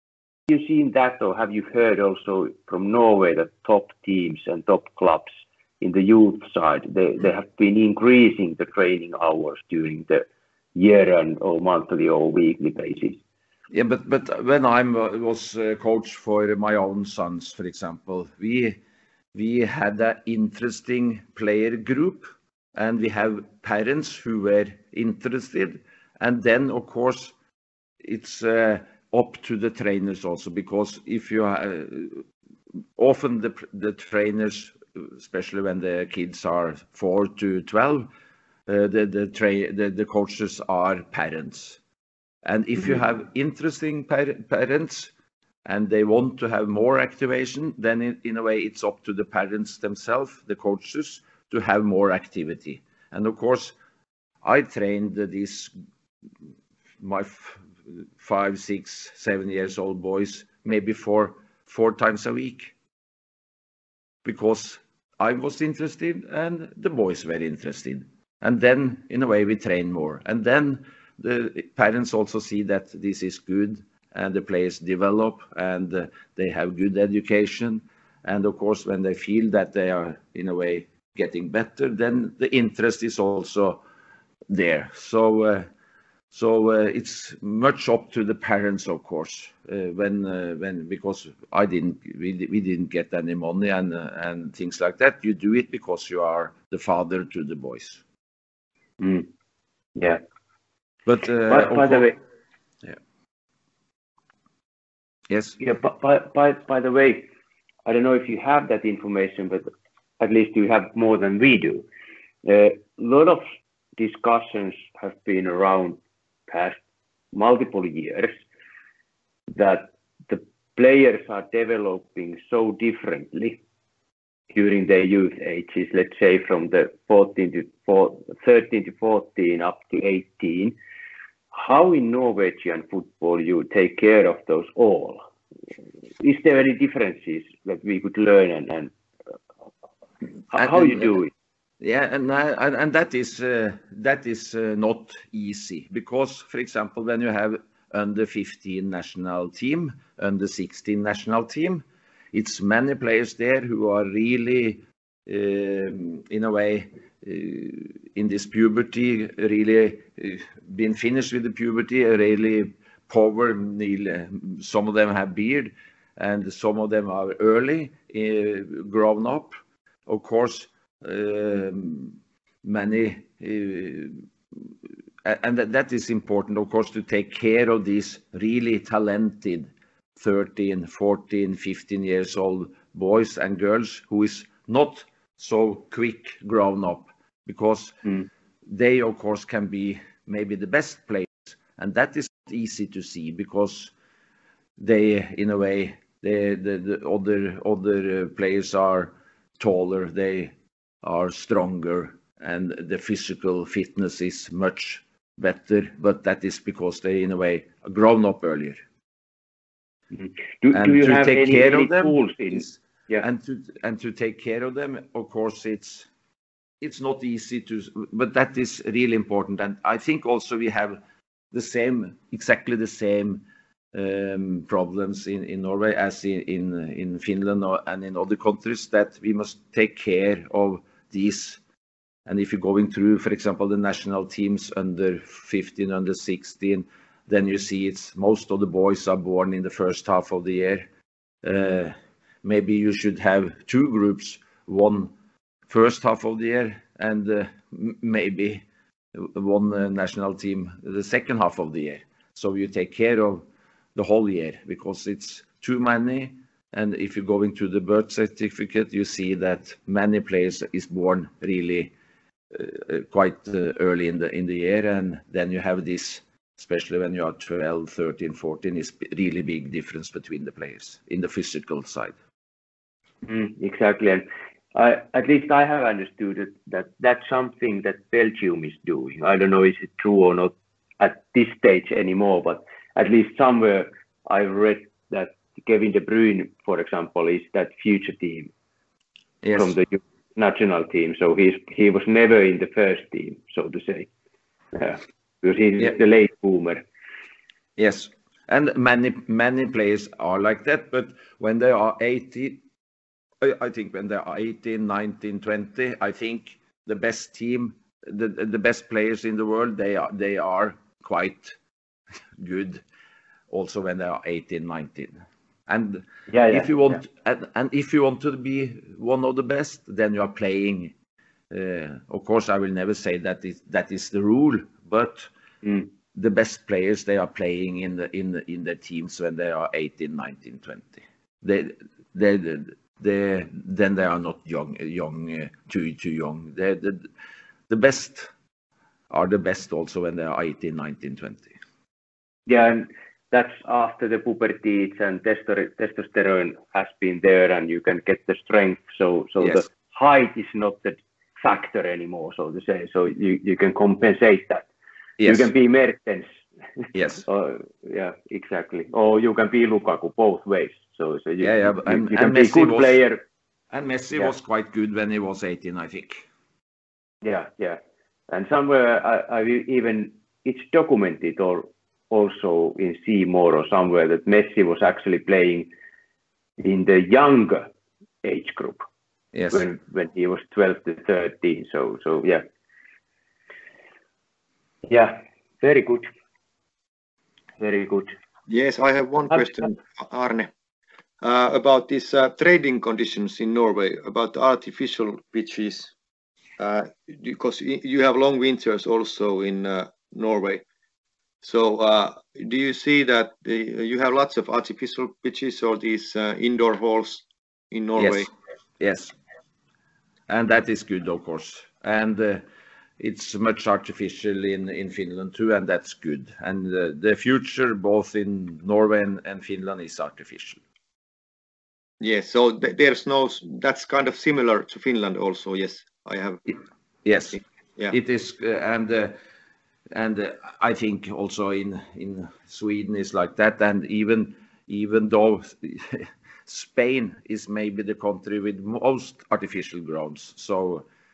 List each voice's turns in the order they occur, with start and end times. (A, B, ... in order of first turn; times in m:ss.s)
0:00.5-0:13.2 A
0:13.7-0:18.8 B
0:19.3-0:27.3 B
0:28.0-0:32.2 B
0:33.0-0:38.1 B
0:38.6-0:41.8 B
0:42.4-0:45.1 B
0:45.6-0:53.8 B
0:54.4-0:55.7 B
0:57.0-1:02.7 B
1:04.2-1:23.8 B
1:24.5-1:25.7 B
1:26.3-1:38.0 B
1:39.0-1:39.3 A
1:39.9-1:40.2 A
1:41.0-1:42.1 B
1:41.5-1:42.2 A
1:45.3-1:45.6 B
1:45.6-1:47.3 A
1:47.8-1:49.7 A
1:50.2-1:51.8 A
1:52.4-1:53.4 A
1:54.0-1:56.8 A
1:57.3-1:58.3 A
1:59.5-2:03.6 A
2:04.5-2:10.7 A
2:11.5-2:15.3 A
2:16.2-2:18.9 A
2:20.5-2:21.3 A
2:20.5-2:21.1 B
2:21.8-2:49.5 B
2:50.0-2:54.6 B
2:55.2-3:08.0 B
3:08.6-3:13.9 B
3:14.8-3:28.8 B
3:30.1-3:33.3 A
3:30.7-3:36.1 B
3:36.8-3:41.0 B
3:41.5-3:51.6 B
3:52.3-4:00.8 B
4:01.4-4:05.1 B
4:05.7-4:21.9 B
4:22.5-4:32.2 B
4:33.2-4:48.5 A
4:49.4-4:49.7 B
4:49.6-4:54.1 A
4:54.7-4:56.8 A
4:57.8-5:02.6 B
5:03.4-5:11.5 B
5:12.4-5:12.8 B
5:13.5-5:20.9 B
5:16.3-5:17.0 A
5:21.5-5:25.3 B
5:25.6-5:25.9 A
5:26.1-5:37.1 B
5:37.7-5:38.3 B
5:39.1-5:41.6 B
5:42.5-5:54.7 A
5:55.2-5:55.5 B
5:55.2-5:56.3 A
5:56.8-6:03.2 A
5:56.9-5:57.2 B
6:01.4-6:03.0 B
6:03.7-6:06.2 B
6:07.2-6:15.7 A
6:16.6-6:17.7 A
6:18.2-6:18.8 A
6:19.3-6:19.7 B
6:19.5-6:22.4 A
6:24.8-6:26.1 A
6:27.6-6:28.1 A
6:28.5-6:30.5 C
6:29.3-6:29.7 A
6:31.2-6:35.9 C
6:36.6-6:40.6 C
6:41.4-6:48.3 C
6:48.0-6:49.1 B
6:50.3-6:52.4 B
6:53.0-7:00.6 B
7:02.0-7:06.4 C
7:07.0-7:09.1 B
7:09.9-7:20.8 B